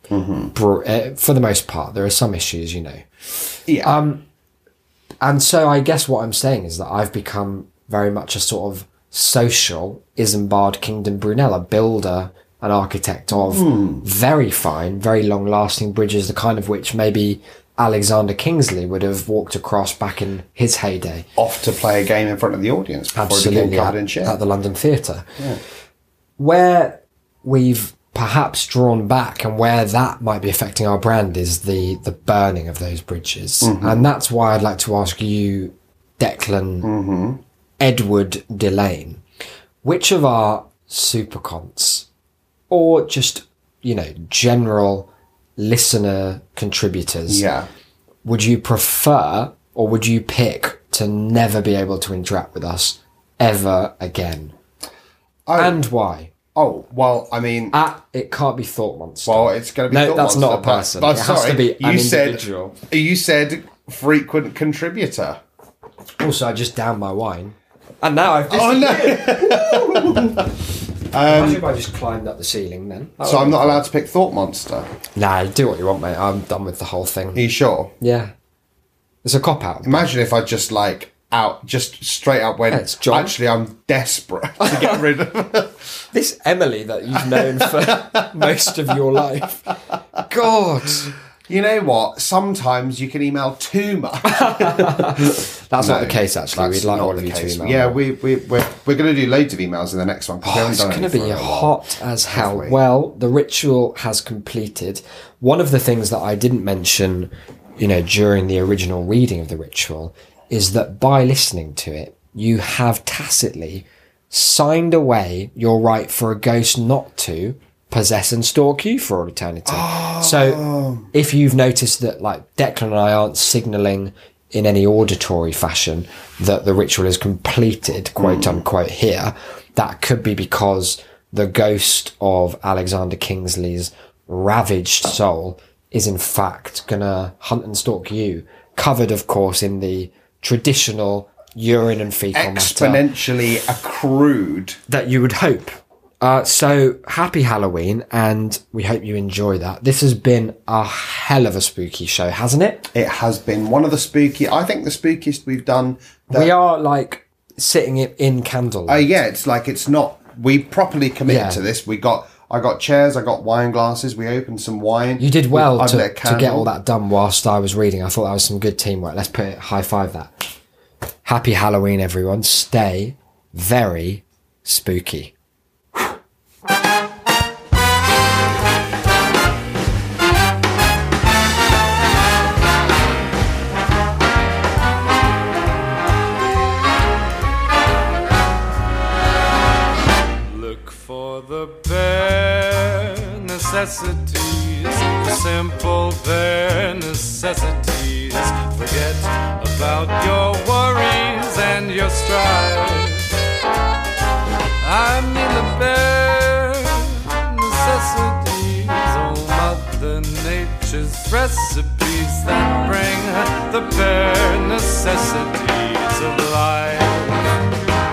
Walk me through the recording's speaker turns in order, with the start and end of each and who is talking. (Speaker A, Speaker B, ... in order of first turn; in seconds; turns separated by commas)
Speaker A: 0.1-0.5, Speaker B: 0.5-3.0, Speaker A: 3.7-3.9, Speaker B: 3.8-4.2, Speaker B: 5.2-21.3, Speaker A: 13.3-14.0, Speaker A: 21.4-24.4, Speaker B: 23.1-25.4, Speaker B: 26.4-36.9, Speaker A: 33.6-34.0, Speaker A: 36.8-37.4, Speaker B: 37.8-39.2, Speaker B: 39.8-42.1, Speaker B: 42.7-47.4, Speaker A: 47.3-47.7, Speaker B: 48.2-54.5, Speaker A: 55.5-55.8, Speaker B: 55.5-56.3, Speaker A: 56.5-57.8, Speaker B: 57.7-62.8, Speaker A: 59.2-65.4, Speaker B: 66.2-70.4, Speaker A: 68.5-70.5, Speaker A: 71.1-71.6, Speaker B: 71.2-73.8, Speaker A: 73.2-74.9, Speaker B: 75.2-77.4, Speaker A: 77.3-77.9, Speaker B: 78.0-78.3, Speaker B: 79.2-80.1, Speaker A: 79.8-85.8, Speaker B: 82.7-83.3, Speaker B: 84.6-85.0, Speaker B: 86.1-89.7, Speaker A: 87.1-89.2, Speaker B: 90.2-91.1, Speaker A: 91.5-101.8, Speaker B: 94.2-98.0, Speaker B: 100.4-143.0, Speaker A: 102.3-102.8, Speaker A: 119.7-121.1, Speaker A: 128.2-128.6, Speaker A: 142.3-144.8, Speaker B: 144.9-152.9, Speaker A: 152.9-156.5, Speaker B: 156.3-159.1, Speaker A: 158.9-166.7, Speaker B: 161.3-161.6, Speaker B: 165.2-170.5, Speaker B: 171.2-175.3, Speaker C: 190.5-203.3, Speaker C: 204.8-217.4